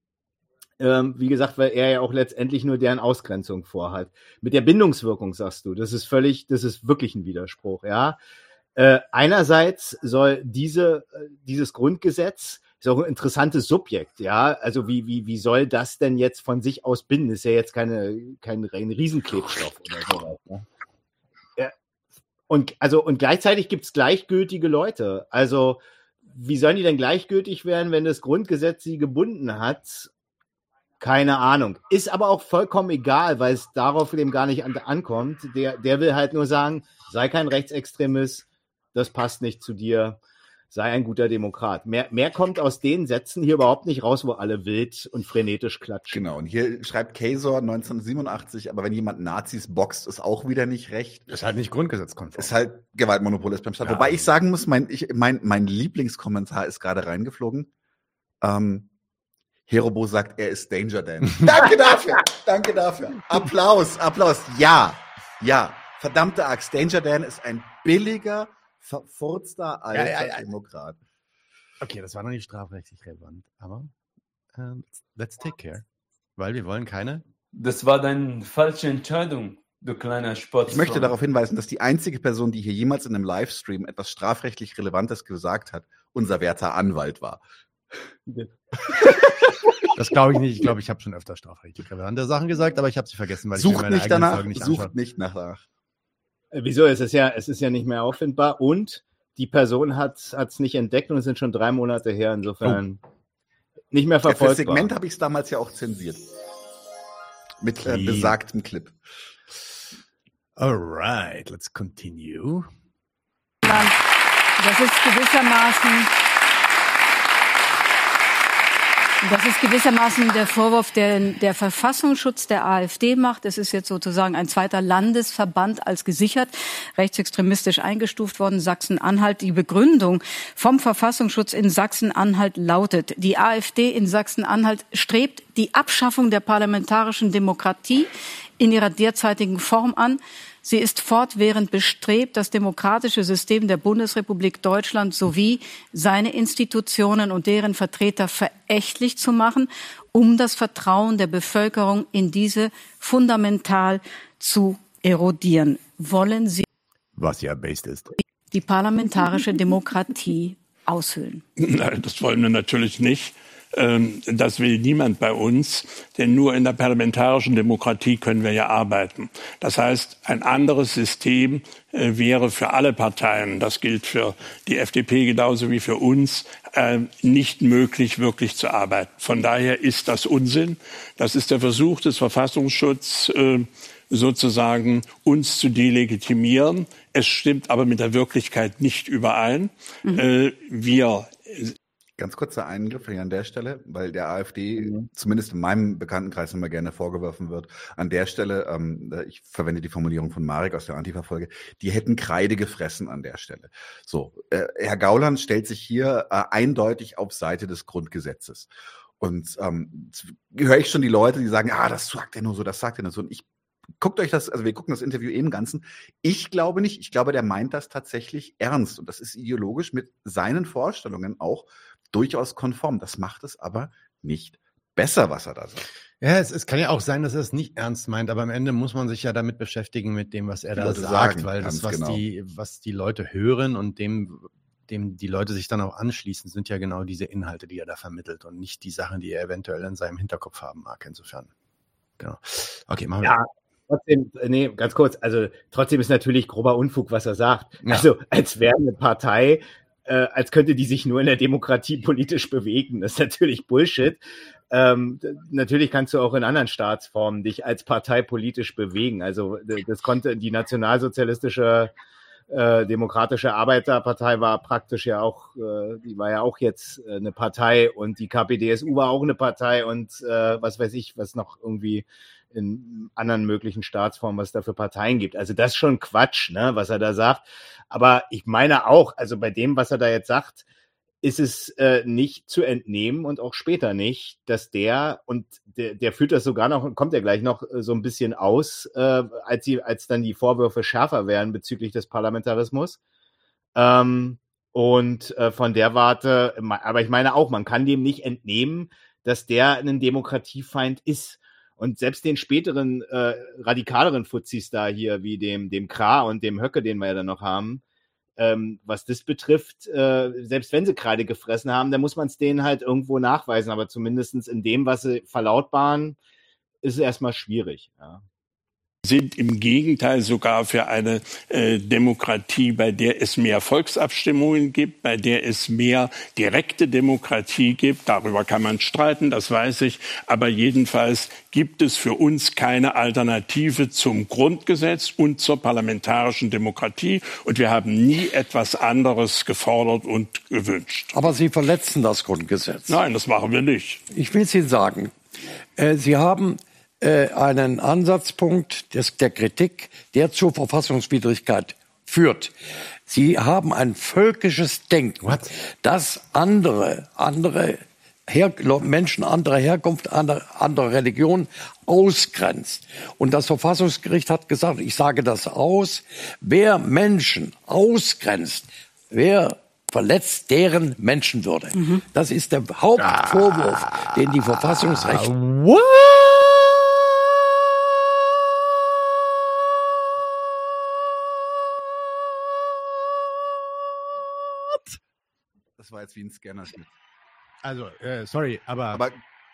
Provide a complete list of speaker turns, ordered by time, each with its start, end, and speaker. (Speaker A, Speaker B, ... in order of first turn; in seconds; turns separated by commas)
Speaker A: 0.8-8.2, Speaker A: 8.8-20.6, Speaker A: 22.5-30.1, Speaker A: 31.0-40.2, Speaker A: 40.7-46.2, Speaker B: 46.1-51.3, Speaker C: 51.3-52.5, Speaker B: 52.4-57.7, Speaker C: 53.8-54.3, Speaker B: 58.4-58.9, Speaker B: 59.7-71.0, Speaker C: 69.9-70.5, Speaker C: 71.8-73.9, Speaker C: 74.5-75.8, Speaker C: 76.4-77.2, Speaker D: 77.5-81.1, Speaker B: 80.7-87.4, Speaker A: 88.3-89.2, Speaker C: 90.0-94.9, Speaker B: 93.5-95.6, Speaker A: 96.5-103.0, Speaker A: 103.9-104.9, Speaker B: 104.3-106.2, Speaker B: 107.6-109.0, Speaker C: 107.8-108.4, Speaker C: 110.6-112.7, Speaker E: 113.6-114.0, Speaker E: 114.6-116.1, Speaker E: 119.2-156.6, Speaker C: 157.2-158.1, Speaker E: 158.5-161.4, Speaker F: 161.6-191.7, Speaker B: 192.2-213.4, Speaker B: 214.0-225.8, Speaker C: 226.2-241.5, Speaker B: 230.7-232.2, Speaker C: 242.2-243.4, Speaker A: 243.2-254.2, Speaker A: 254.7-261.9, Speaker A: 262.5-280.6, Speaker A: 281.2-293.0, Speaker A: 293.7-307.8, Speaker A: 308.4-316.2, Speaker A: 316.8-318.2, Speaker F: 319.1-341.1, Speaker G: 341.1-343.0, Speaker F: 342.9-344.0, Speaker G: 344.1-345.1, Speaker G: 345.8-352.5, Speaker G: 353.1-375.3, Speaker C: 355.2-355.5, Speaker E: 371.7-372.0, Speaker C: 373.0-376.7, Speaker B: 385.8-386.9, Speaker C: 387.6-389.0, Speaker B: 388.9-389.2